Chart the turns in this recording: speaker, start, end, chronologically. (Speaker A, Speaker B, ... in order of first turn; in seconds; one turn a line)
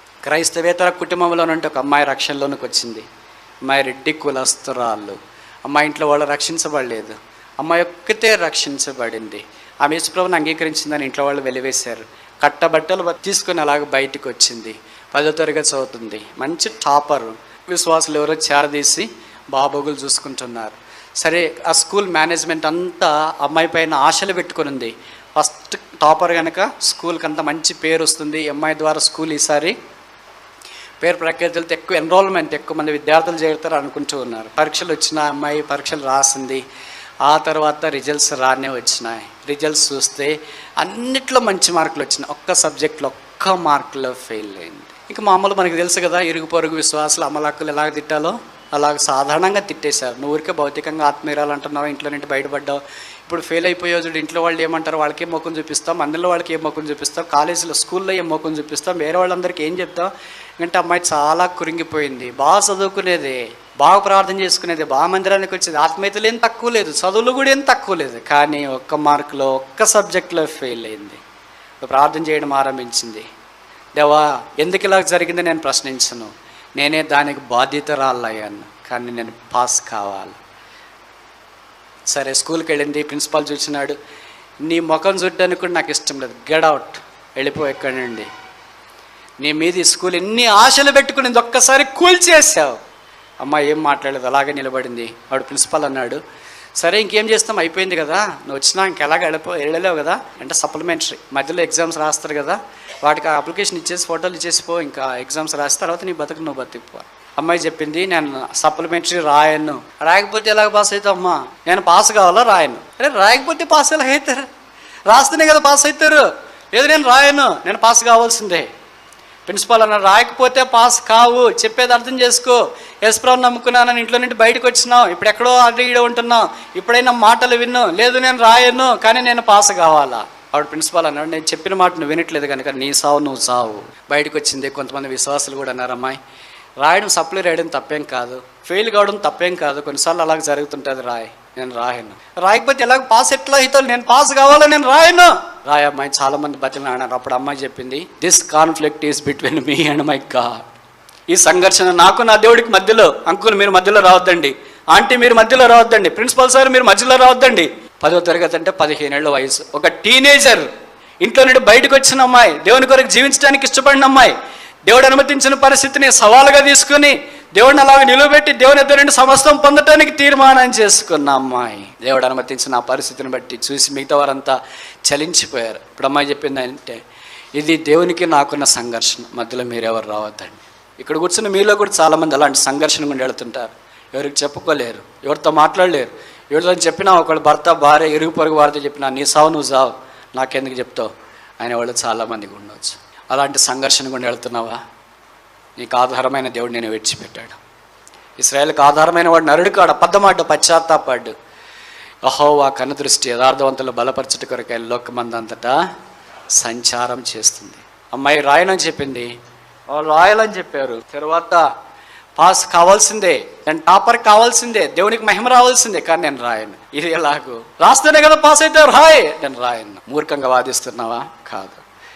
Speaker A: 0.2-3.0
Speaker A: 3.6-29.7
Speaker A: 31.0-36.6
Speaker A: 37.2-71.2
Speaker A: 71.8-73.3
Speaker A: 73.9-80.4
Speaker A: 82.1-84.0
Speaker A: 84.6-88.3
Speaker A: 89.4-92.8
Speaker A: 93.4-96.2
Speaker A: 96.8-114.5
Speaker A: 115.1-118.7
Speaker A: 119.5-136.2
Speaker A: 136.8-150.6
Speaker A: 151.3-160.7
Speaker A: 161.2-174.6
Speaker A: 175.1-177.0
Speaker A: 177.6-194.8
Speaker A: 195.8-197.6
Speaker A: 198.4-201.3
Speaker A: 202.2-205.8
Speaker A: 206.5-209.3
Speaker A: 209.9-211.7
Speaker A: 212.4-221.8